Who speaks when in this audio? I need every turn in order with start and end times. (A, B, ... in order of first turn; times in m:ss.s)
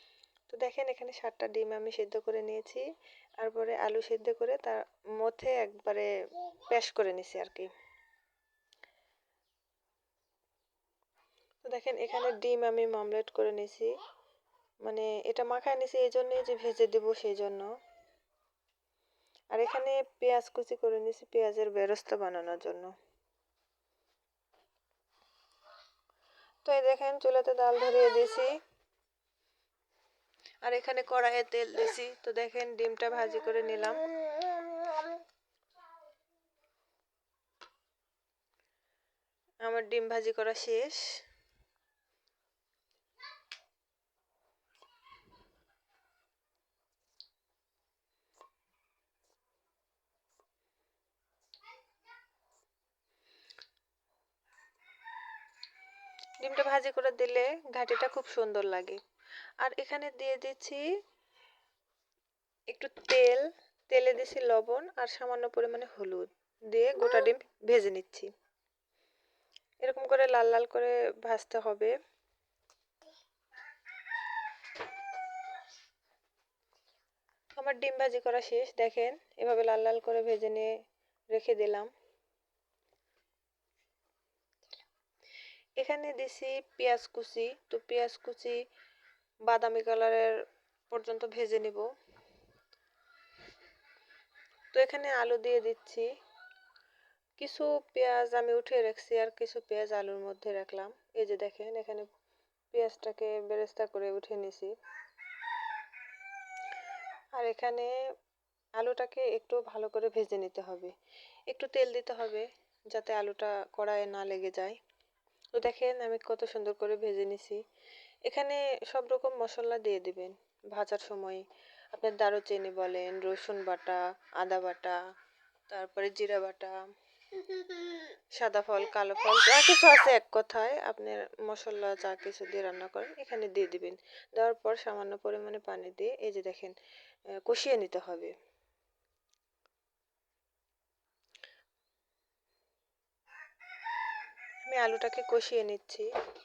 0:00.5-0:02.8 A
0:03.4-0:07.7 A
0:11.6-0:13.9 A
0:14.8-0:17.7 A
0:19.5-0:22.9 A
0:26.6-0:28.6 A
0:30.6-0:34.1 A
0:39.6-0:41.2 A
0:56.4-0:59.0 A
0:59.6-1:00.8 A
1:02.7-1:08.3 A
1:09.8-1:11.9 A
1:17.6-1:20.7 A
1:21.3-1:21.9 A
1:25.8-1:28.6 A
1:29.5-1:30.3 A
1:30.9-1:31.9 A
1:34.7-1:36.1 A
1:37.4-1:42.1 A
1:42.7-1:44.7 A
1:47.4-1:47.9 A
1:48.8-1:50.9 A
1:51.5-1:54.8 A
1:55.6-1:57.6 A
1:58.3-2:01.4 A
2:01.9-2:05.0 A
2:05.7-2:06.8 A
2:07.4-2:16.8 A
2:17.4-2:18.4 A
2:24.6-2:26.1 A